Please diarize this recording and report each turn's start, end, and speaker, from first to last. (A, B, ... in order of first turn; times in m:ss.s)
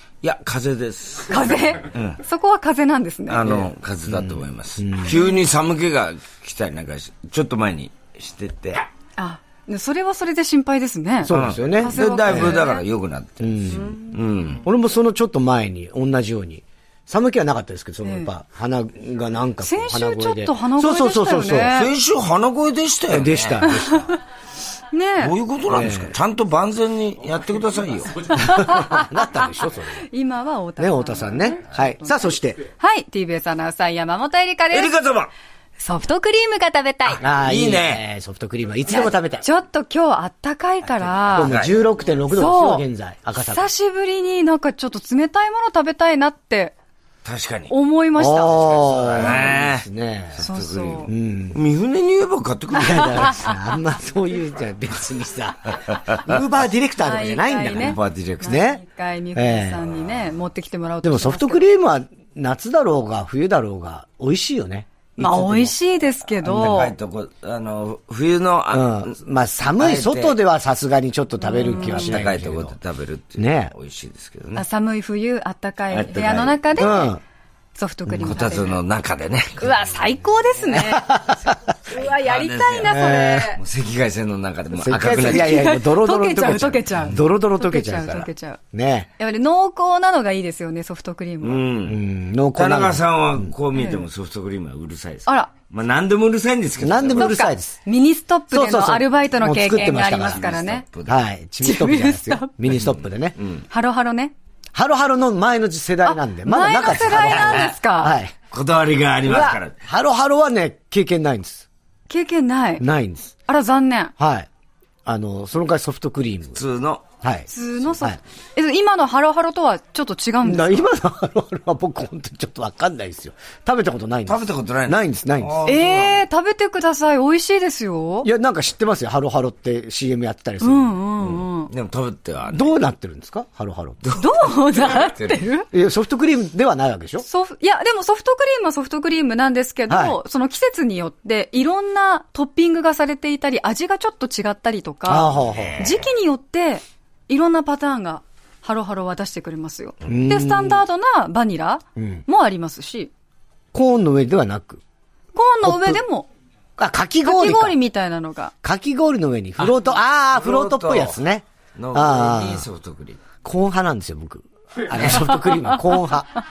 0:00.2-0:02.2 A
0:01.3-0:03.4 B
0:03.3-0:08.9 A
0:03.4-0:05.2 C
0:09.2-0:12.8 B
0:11.2-0:12.6 C
0:11.3-0:14.6 A
0:13.4-0:14.0 C
0:14.6-0:21.8 C
0:18.0-0:18.3 B
0:19.6-0:21.9 B
0:21.7-0:23.6 A
0:23.1-0:24.1 C
0:23.6-0:24.1 B
0:24.9-0:25.3 B
0:25.2-0:28.4 A
0:25.7-0:26.1 C
0:28.3-0:34.9 B
0:28.3-0:30.1 C
0:30.8-0:32.6 C
0:34.7-0:35.3 A
0:35.8-0:37.2 B
0:37.1-0:38.0 A
0:37.2-0:39.5 C
0:38.9-0:41.5 B
0:41.1-0:43.7 C
0:41.3-0:41.8 A
0:42.3-0:42.8 B
0:43.4-0:46.8 B
0:47.2-0:47.7 A
0:47.7-0:49.5 B
0:48.2-0:50.4 C
0:49.0-0:53.4 A
0:50.4-0:51.1 B
0:51.0-0:51.6 C
0:52.8-0:58.8 C
0:56.0-0:56.2 A
0:57.0-1:01.6 B
0:57.7-0:58.6 A
0:59.4-0:59.8 C
1:01.0-1:05.7 C
1:05.2-1:06.9 B
1:06.4-1:09.1 A
1:08.7-1:12.8 C
1:09.7-1:10.4 A
1:11.4-1:12.2 B
1:11.6-1:14.6 A
1:13.4-1:13.7 C
1:14.6-1:17.2 B
1:15.9-1:16.7 A
1:16.8-1:17.2 C
1:17.8-1:18.8 B
1:18.2-1:19.7 A
1:19.6-1:23.6 B
1:20.7-1:21.6 C
1:21.9-1:23.0 A
1:22.9-1:23.6 C
1:23.6-1:25.7 A
1:24.8-1:29.1 C
1:25.2-1:28.6 B
1:29.2-1:31.6 B
1:31.4-1:32.0 A
1:31.9-1:33.5 C
1:32.6-1:37.4 A
1:33.7-1:34.0 B
1:36.8-1:37.8 C
1:37.2-1:40.8 B
1:38.5-1:40.4 C
1:40.3-1:41.2 A
1:41.1-1:43.4 C
1:41.6-1:42.5 B
1:42.7-1:43.6 A
1:43.7-1:44.3 B
1:44.7-1:48.3 C
1:46.0-1:48.1 B
1:47.1-1:47.7 A
1:48.5-1:49.8 A
1:49.2-1:51.6 C
1:52.1-1:52.8 B
1:52.8-1:53.4 C
1:53.5-1:54.1 B
1:54.2-1:54.5 C
1:55.1-1:56.6 C
1:56.6-1:57.0 A
1:57.2-1:58.2 C
1:57.5-2:00.9 B
2:00.4-2:05.6 C
2:04.3-2:06.2 A
2:05.7-2:08.3 B
2:08.2-2:11.0 C
2:10.6-2:11.7 B
2:11.2-2:12.7 A
2:12.5-2:14.1 C
2:14.0-2:15.4 A
2:14.2-2:15.7 B
2:15.7-2:17.3 C
2:17.2-2:33.1 B
2:19.9-2:20.2 C
2:25.1-2:25.8 C
2:25.5-2:25.9 A
2:30.0-2:30.8 C
2:32.0-2:32.2 C
2:33.7-2:34.8 C
2:35.4-2:36.3 B
2:35.6-2:36.0 C
2:36.8-2:37.8 C
2:37.2-2:38.5 B
2:38.6-2:42.7 C
2:40.3-2:41.2 A
2:41.8-2:43.2 A
2:43.4-2:46.4 C
2:44.9-2:45.4 A